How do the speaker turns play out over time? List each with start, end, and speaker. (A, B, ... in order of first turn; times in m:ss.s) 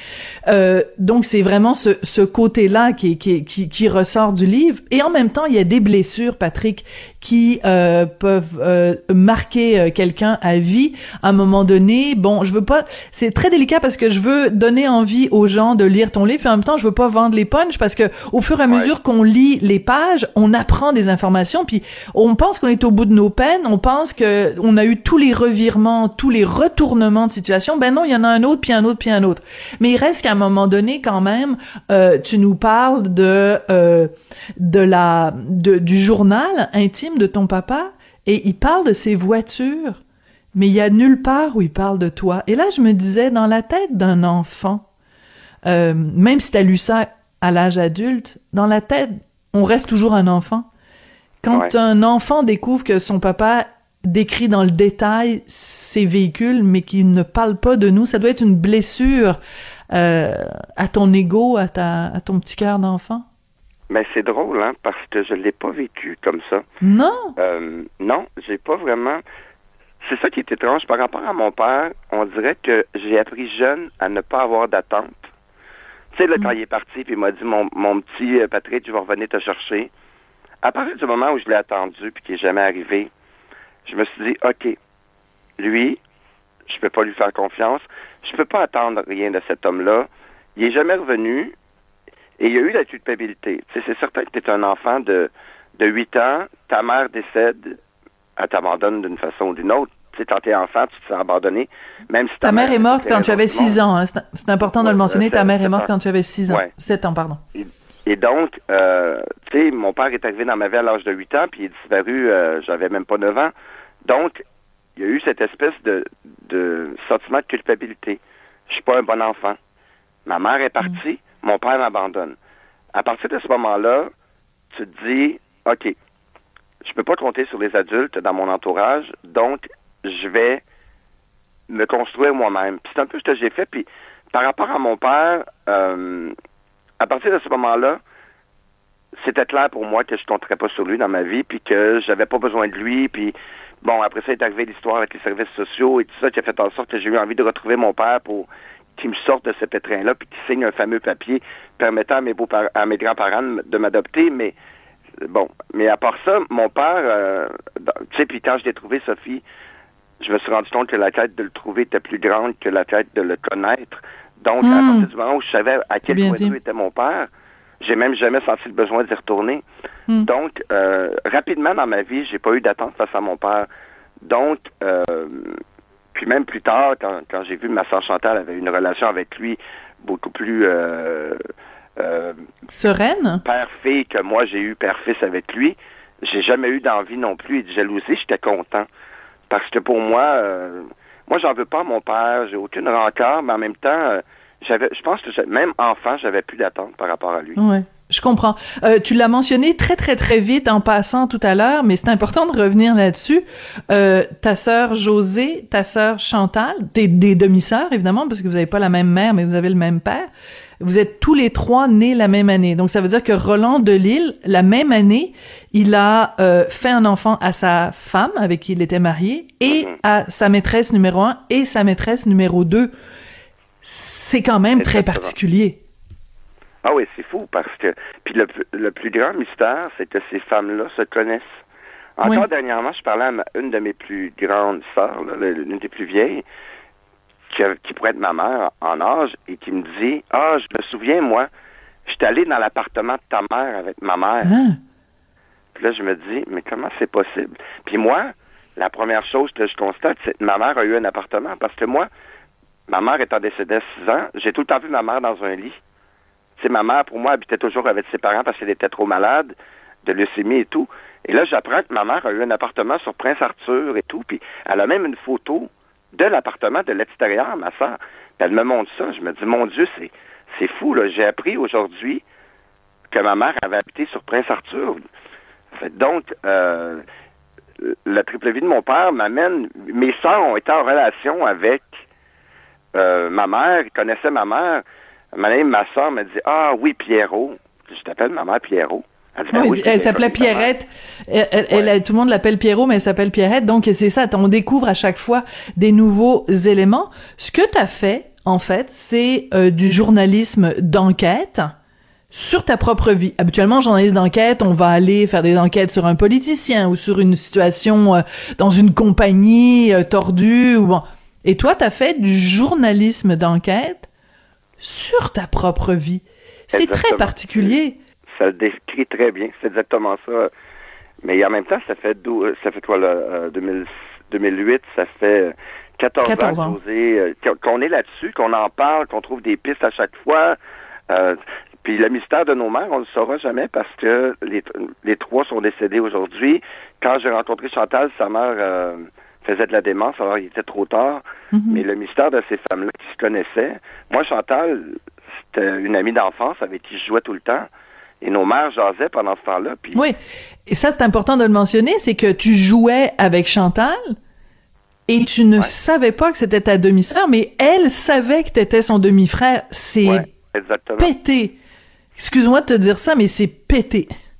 0:00.5-0:40.0 A
0:40.5-0:44.8 A
0:45.6-0:50.7 A
0:51.4-0:59.4 A
0:59.9-1:03.2 A
1:03.9-1:06.6 B
1:06.8-1:07.3 A
1:07.4-1:09.2 B
1:10.0-1:15.2 B
1:16.1-1:19.9 B
1:20.6-1:23.1 B
1:23.8-1:24.8 B
1:25.6-1:26.0 B
1:26.7-1:31.5 B
1:32.4-1:37.8 B
1:38.4-1:43.8 B
1:42.4-1:47.4 A
1:44.7-1:45.9 B
1:47.5-1:53.5 B
1:54.0-1:54.4 B
1:55.0-1:59.6 B
2:00.2-2:02.4 B
2:02.9-2:04.1 B
2:04.7-2:05.9 B
2:06.8-2:10.6 B
2:11.7-2:16.3 B
2:17.0-2:18.0 B
2:19.2-2:34.5 B
2:35.2-2:39.4 B
2:40.2-2:47.3 B
2:44.6-2:45.1 A
2:46.1-2:46.6 A
2:47.8-2:49.6 B
2:50.2-2:53.7 B
2:54.2-2:55.6 B
2:56.1-3:01.4 B
3:02.0-3:02.4 B
3:02.7-3:03.4 A
3:03.4-3:08.9 B
3:09.5-3:17.6 B
3:17.6-3:30.3 A
3:30.8-3:42.9 A
3:39.6-3:40.0 B
3:43.8-3:45.8 A
3:44.8-3:45.3 B
3:46.8-3:51.5 B
3:52.2-3:56.4 B
3:57.5-4:01.5 B
4:02.1-4:04.5 B
4:04.4-4:04.8 A
4:05.7-4:12.1 B
4:12.9-4:15.8 B
4:16.6-4:32.2 B
4:33.1-4:35.0 B
4:35.8-4:37.0 B
4:37.8-4:41.9 B
4:42.9-4:50.7 B
4:49.5-5:01.7 A
5:02.3-5:14.1 A
5:14.8-5:18.0 A
5:16.7-5:17.8 B
5:18.3-5:20.5 B
5:21.2-5:30.6 B
5:26.2-5:26.8 A
5:31.1-5:45.0 B
5:41.5-5:41.8 A
5:45.5-5:47.7 B
5:48.2-5:50.0 B
5:50.7-5:54.1 A
5:55.1-6:00.3 A
6:00.0-6:01.1 B
6:01.0-6:01.6 A
6:02.2-6:04.1 A